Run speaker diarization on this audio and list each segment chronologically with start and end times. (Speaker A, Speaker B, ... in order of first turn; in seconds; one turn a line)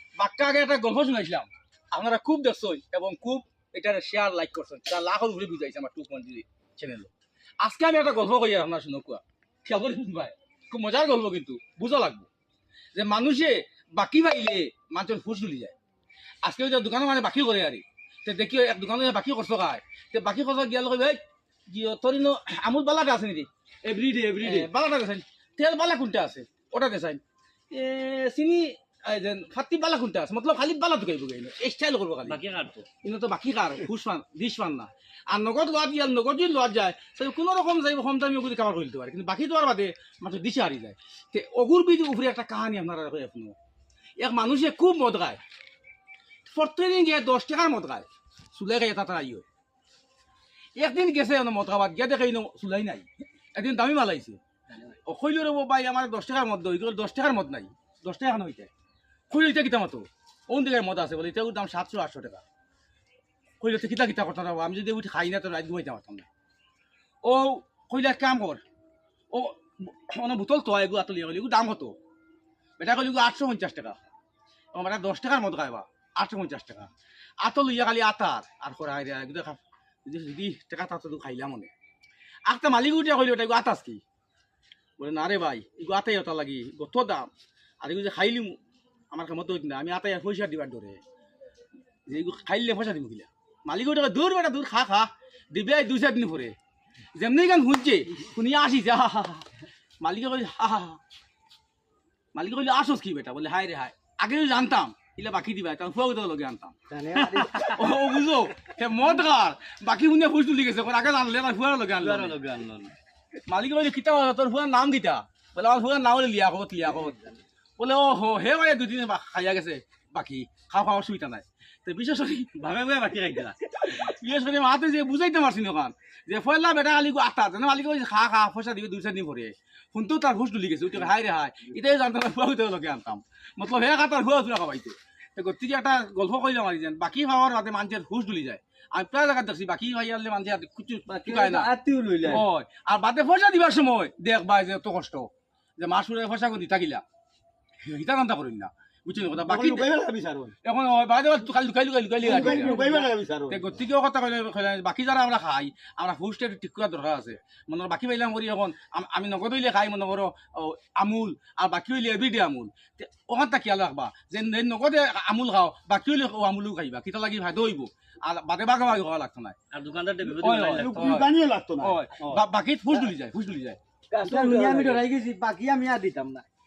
Speaker A: 0.2-7.1
Speaker A: 7.6-12.3
Speaker A: 12.9-15.8
Speaker A: 16.4-32.4
Speaker B: 32.3-32.9
Speaker A: 33.0-43.6
Speaker A: 44.2-45.4
Speaker A: 46.5-49.5
Speaker A: 50.8-58.7
Speaker A: 59.3-62.4
Speaker A: 63.6-66.3
Speaker A: 67.2-68.6
Speaker A: 69.3-71.9
Speaker A: 72.8-74.0
Speaker A: 74.7-76.9
Speaker A: 77.4-81.7
Speaker A: 82.5-84.0
Speaker A: 85.0-87.3
Speaker A: 87.8-88.6
Speaker A: 89.1-91.0
Speaker A: 92.1-96.5
Speaker A: 97.2-99.5
Speaker A: 100.0-101.0
Speaker A: 102.3-106.8
Speaker C: 106.9-107.8
Speaker B: 107.2-107.7
Speaker A: 107.3-112.4
Speaker B: 112.0-113.0
Speaker A: 113.5-141.7
Speaker B: 141.1-142.4
Speaker A: 142.2-147.0
Speaker A: 147.8-149.9
Speaker C: 149.4-150.5
Speaker A: 150.6-169.6
Speaker C: 152.2-153.7
Speaker B: 152.3-153.1
Speaker B: 169.7-171.3
Speaker A: 170.4-173.8
Speaker C: 170.7-172.0
Speaker B: 174.1-175.0
Speaker C: 174.2-176.5